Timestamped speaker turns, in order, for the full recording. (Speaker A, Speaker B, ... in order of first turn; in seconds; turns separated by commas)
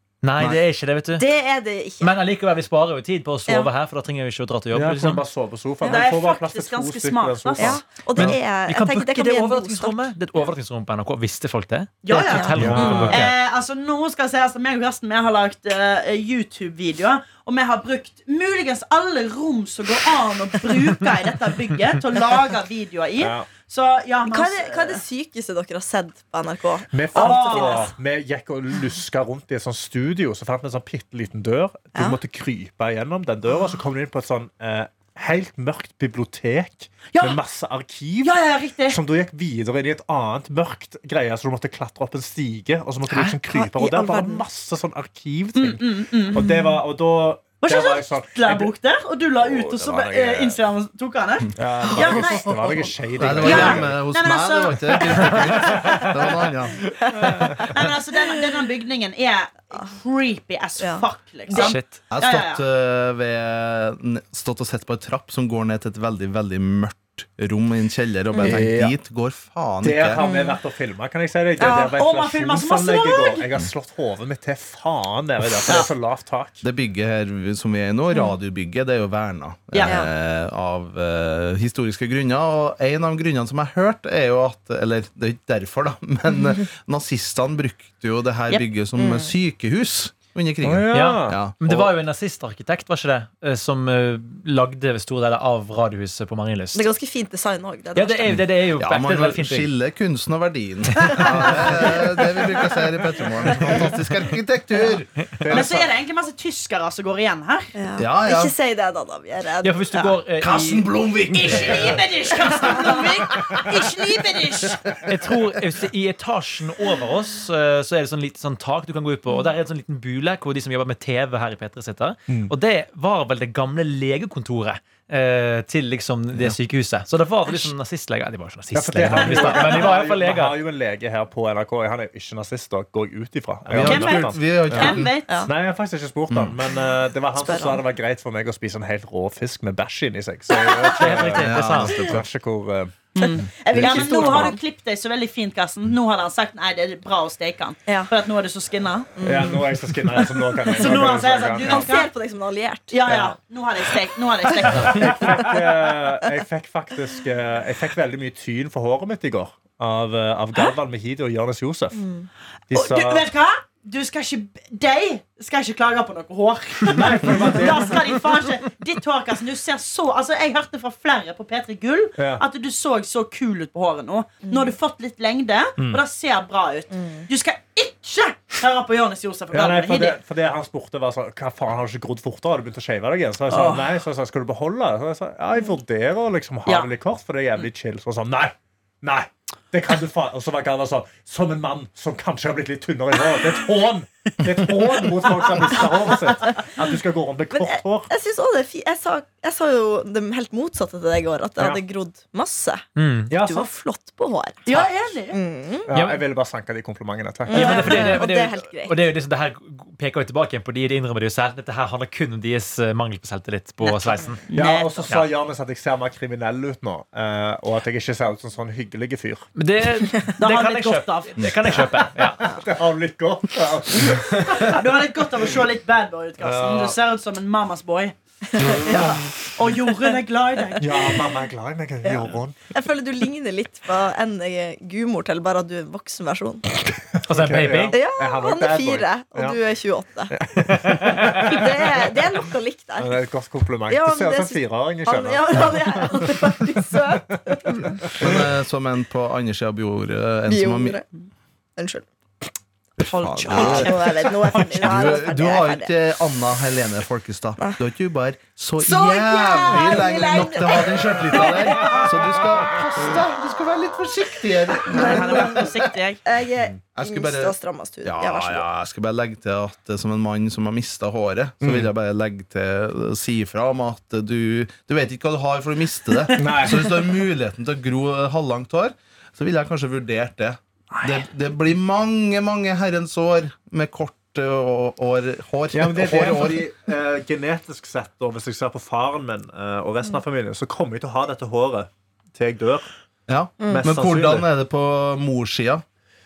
Speaker A: 0.2-1.2, Speaker B: 1.2-2.1, Speaker A: 2.0-5.2, Speaker C: 4.7-8.4, Speaker D: 5.8-7.8, Speaker B: 7.6-10.0, Speaker A: 8.1-13.3, Speaker D: 12.0-25.0, Speaker B: 12.1-13.2, Speaker C: 12.5-13.3, Speaker C: 23.2-23.5, Speaker B: 24.2-27.9, Speaker C: 26.9-38.3, Speaker D: 27.1-27.9, Speaker B: 31.9-32.2, Speaker D: 37.1-37.4, Speaker D: 38.2-39.0, Speaker C: 38.9-48.7, Speaker A: 43.0-43.4, Speaker B: 43.5-44.4, Speaker D: 45.5-46.4, Speaker B: 46.4-46.8, Speaker D: 47.6-56.3, Speaker C: 49.4-50.6, Speaker C: 51.5-54.0, Speaker E: 53.2-57.3, Speaker C: 55.6-56.0, Speaker B: 57.1-57.9, Speaker D: 57.4-62.6, Speaker B: 60.8-61.8, Speaker A: 61.5-61.9, Speaker E: 62.1-70.2, Speaker B: 68.3-68.6, Speaker C: 68.4-69.0, Speaker C: 69.8-76.6, Speaker B: 70.2-70.6, Speaker D: 71.6-73.5, Speaker E: 76.6-91.5, Speaker D: 79.7-80.0, Speaker B: 79.8-80.1, Speaker B: 89.0-89.3, Speaker C: 90.6-91.9, Speaker A: 90.9-96.9, Speaker B: 96.7-98.4, Speaker A: 97.9-99.7, Speaker E: 98.8-105.8, Speaker A: 101.0-101.3, Speaker B: 101.0-102.7, Speaker C: 103.6-103.8, Speaker C: 105.4-105.9, Speaker D: 105.5-107.7, Speaker B: 107.7-110.2, Speaker E: 108.0-108.5, Speaker A: 109.6-111.7, Speaker E: 110.4-112.0, Speaker D: 111.3-114.8, Speaker B: 112.5-113.0, Speaker A: 115.0-130.6, Speaker C: 122.3-122.5, Speaker C: 128.7-144.5, Speaker D: 129.3-129.6, Speaker E: 133.7-135.1, Speaker D: 133.8-135.3, Speaker E: 136.3-136.5, Speaker B: 137.3-137.8, Speaker B: 140.5-141.2, Speaker A: 140.9-142.1, Speaker E: 141.4-142.2, Speaker D: 143.2-149.2, Speaker B: 143.2-144.6, Speaker B: 149.2-151.1, Speaker C: 149.2-151.9, Speaker D: 150.7-152.1, Speaker B: 151.7-153.0, Speaker D: 152.9-155.4, Speaker C: 153.1-153.3, Speaker C: 154.7-162.0, Speaker B: 154.7-155.5, Speaker B: 161.9-162.3, Speaker C: 162.7-163.3, Speaker D: 162.7-180.2, Speaker C: 166.8-168.2, Speaker C: 172.2-172.4, Speaker C: 179.5-198.1, Speaker D: 183.5-183.9, Speaker B: 197.5-205.9, Speaker C: 201.6-201.8, Speaker A: 202.9-203.3, Speaker C: 203.3-203.7, Speaker D: 204.7-205.4, Speaker C: 205.8-208.2, Speaker A: 205.9-206.2, Speaker B: 207.4-208.9, Speaker A: 207.5-214.4, Speaker D: 214.3-215.1, Speaker C: 214.5-219.5, Speaker A: 219.6-222.5, Speaker D: 220.4-221.8, Speaker C: 222.1-224.8, Speaker D: 224.4-228.1, Speaker C: 226.4-227.0, Speaker C: 228.6-229.5, Speaker B: 228.6-229.2, Speaker D: 229.5-231.2, Speaker C: 230.8-232.6, Speaker B: 232.0-236.7, Speaker A: 237.2-238.0, Speaker C: 237.3-239.6, Speaker B: 237.9-240.3, Speaker C: 240.3-242.3, Speaker A: 240.8-241.4, Speaker B: 241.4-243.2, Speaker C: 243.0-246.7, Speaker B: 243.9-248.1, Speaker C: 248.0-248.4, Speaker E: 248.2-251.0, Speaker B: 250.5-251.1, Speaker B: 251.8-252.1, Speaker D: 253.0-255.2, Speaker E: 253.0-265.9, Speaker B: 253.5-255.9, Speaker B: 258.8-262.4, Speaker D: 264.9-266.2, Speaker B: 264.9-265.6, Speaker B: 266.2-268.6, Speaker E: 266.9-286.7, Speaker C: 271.6-271.9, Speaker D: 276.3-276.6, Speaker C: 276.3-277.1, Speaker C: 285.7-292.9, Speaker E: 293.3-295.8, Speaker B: 293.6-293.9, Speaker C: 293.7-294.5